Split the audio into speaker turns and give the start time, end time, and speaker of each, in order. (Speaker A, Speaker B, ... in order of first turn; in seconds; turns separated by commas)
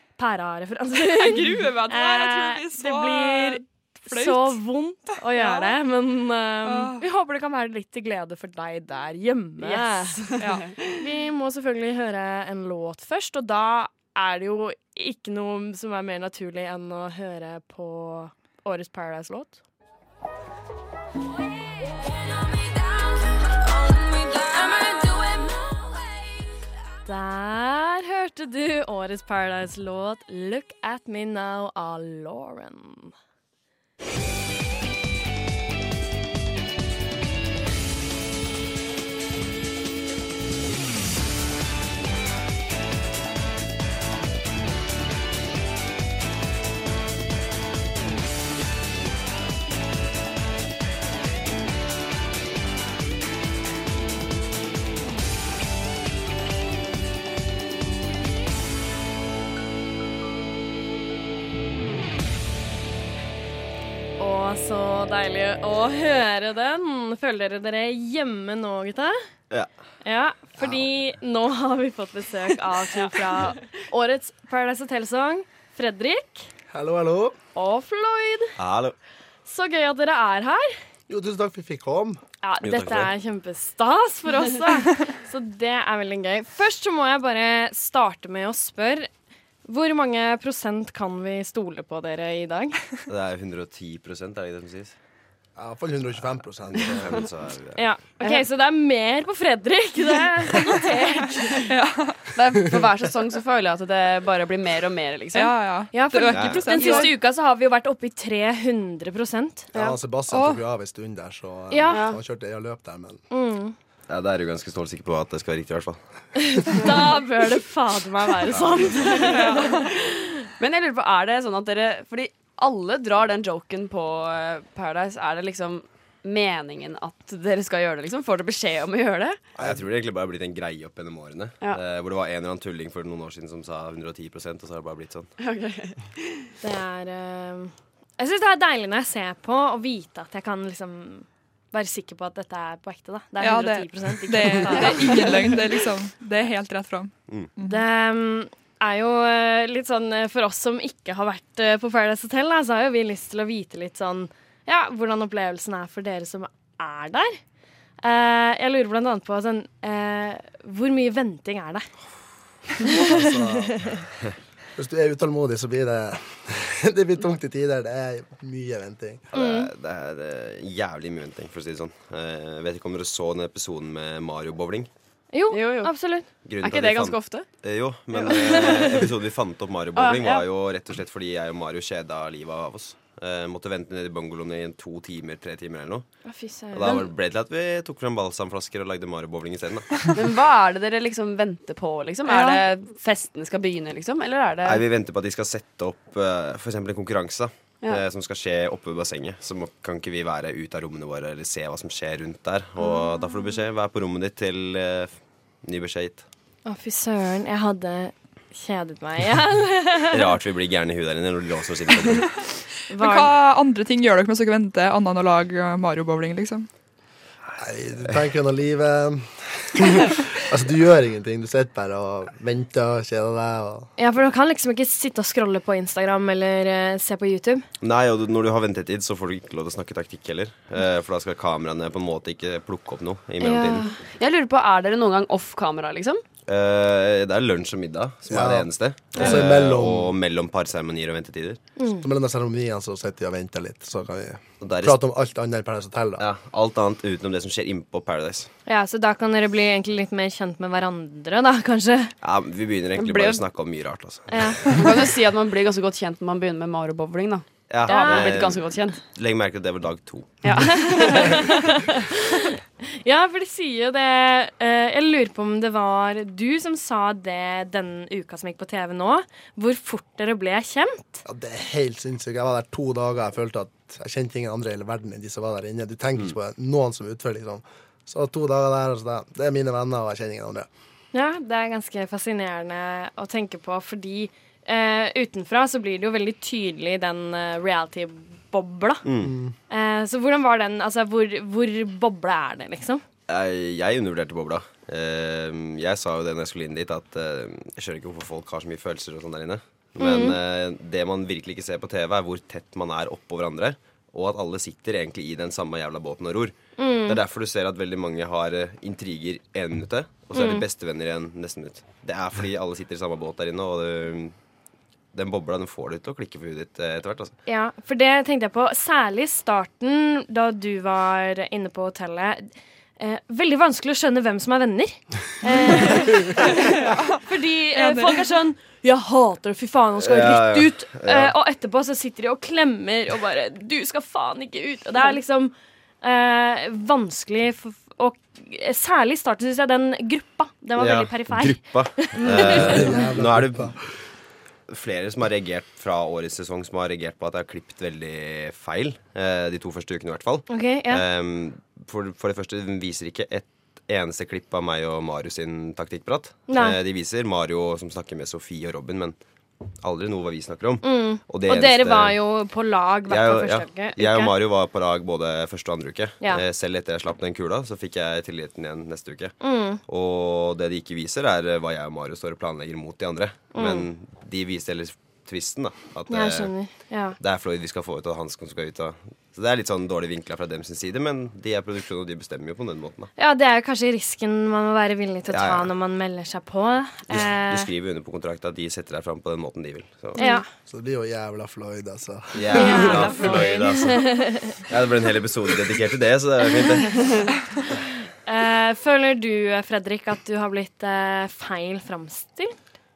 Speaker A: 0.2-19.6, Speaker B: 1.0-4.6, Speaker B: 5.3-5.8, Speaker B: 6.6-7.0, Speaker C: 9.6-10.6, Speaker B: 10.4-10.7, Speaker A: 24.3-25.2, Speaker A: 27.0-33.1, Speaker A: 64.2-69.2, Speaker A: 70.0-76.5, Speaker C: 73.0-73.5, Speaker D: 76.7-77.3, Speaker A: 77.5-78.5, Speaker E: 78.6-79.0, Speaker A: 79.5-80.8, Speaker D: 81.1-82.2, Speaker A: 82.4-89.1, Speaker E: 82.6-83.1, Speaker A: 89.7-92.8, Speaker E: 93.1-95.0, Speaker D: 95.5-97.3, Speaker E: 96.7-97.8, Speaker A: 97.7-101.6, Speaker C: 98.2-98.4, Speaker B: 101.7-102.3, Speaker C: 102.3-105.6, Speaker B: 105.3-107.1, Speaker A: 105.9-109.7, Speaker E: 106.3-106.6, Speaker C: 106.8-107.1, Speaker D: 109.7-113.2, Speaker B: 110.3-110.6, Speaker A: 111.7-112.0, Speaker C: 111.9-112.2, Speaker A: 113.3-113.8, Speaker E: 114.1-116.5, Speaker A: 116.6-119.9, Speaker E: 118.5-119.2, Speaker C: 119.0-129.4, Speaker B: 119.2-119.8, Speaker D: 129.6-129.8, Speaker E: 129.6-135.3, Speaker C: 135.4-136.5, Speaker A: 136.6-145.2, Speaker B: 143.4-147.8, Speaker C: 144.7-145.5, Speaker A: 147.6-157.4, Speaker A: 158.0-162.0, Speaker A: 162.8-164.0, Speaker E: 163.1-164.3, Speaker D: 164.8-169.2, Speaker E: 169.3-174.9, Speaker A: 169.3-169.7, Speaker A: 175.3-176.2, Speaker C: 175.5-177.5, Speaker E: 176.4-190.1, Speaker A: 178.1-178.4, Speaker C: 178.3-178.8, Speaker C: 179.9-180.4, Speaker A: 186.2-186.8, Speaker C: 186.8-187.1, Speaker C: 190.1-194.8, Speaker B: 192.3-192.6, Speaker E: 194.6-206.2, Speaker A: 206.6-210.2, Speaker E: 210.1-212.4, Speaker A: 212.9-213.3, Speaker B: 212.9-216.7, Speaker D: 217.6-223.9, Speaker A: 224.0-227.6, Speaker E: 227.8-233.8, Speaker C: 233.4-236.2, Speaker E: 236.5-241.6, Speaker D: 238.3-240.1, Speaker C: 239.2-239.4, Speaker A: 241.8-242.0, Speaker D: 242.0-246.2, Speaker E: 244.6-245.0, Speaker E: 246.2-248.5, Speaker A: 248.7-252.1, Speaker E: 252.2-254.7, Speaker C: 253.0-253.4, Speaker A: 254.3-254.8, Speaker C: 254.7-259.0, Speaker E: 257.7-260.7, Speaker A: 257.9-258.3, Speaker C: 260.4-261.4, Speaker A: 260.6-261.9, Speaker A: 263.0-271.2, Speaker D: 271.2-280.7, Speaker A: 281.1-289.0, Speaker E: 289.0-289.3, Speaker D: 289.2-289.5, Speaker A: 289.7-293.0, Speaker E: 293.3-314.4, Speaker A: 300.0-300.4, Speaker A: 306.8-307.2, Speaker A: 310.3-310.6, Speaker E: 315.1-317.4, Speaker A: 317.4-326.5, Speaker B: 326.5-327.2, Speaker A: 327.2-342.9, Speaker B: 327.7-328.2, Speaker E: 330.0-331.3, Speaker E: 340.8-344.1, Speaker C: 342.2-342.6, Speaker D: 342.5-343.8, Speaker E: 344.7-359.2, Speaker A: 350.5-351.0, Speaker A: 356.5-356.8, Speaker E: 359.7-362.3, Speaker A: 360.8-364.3, Speaker E: 363.1-383.1, Speaker A: 369.4-369.8, Speaker A: 373.5-373.9, Speaker A: 376.1-377.2, Speaker A: 383.2-387.7, Speaker E: 385.3-385.7, Speaker E: 387.1-390.2, Speaker A: 390.2-390.4, Speaker D: 390.7-393.4, Speaker E: 392.3-397.1, Speaker A: 392.5-394.5, Speaker A: 398.2-402.6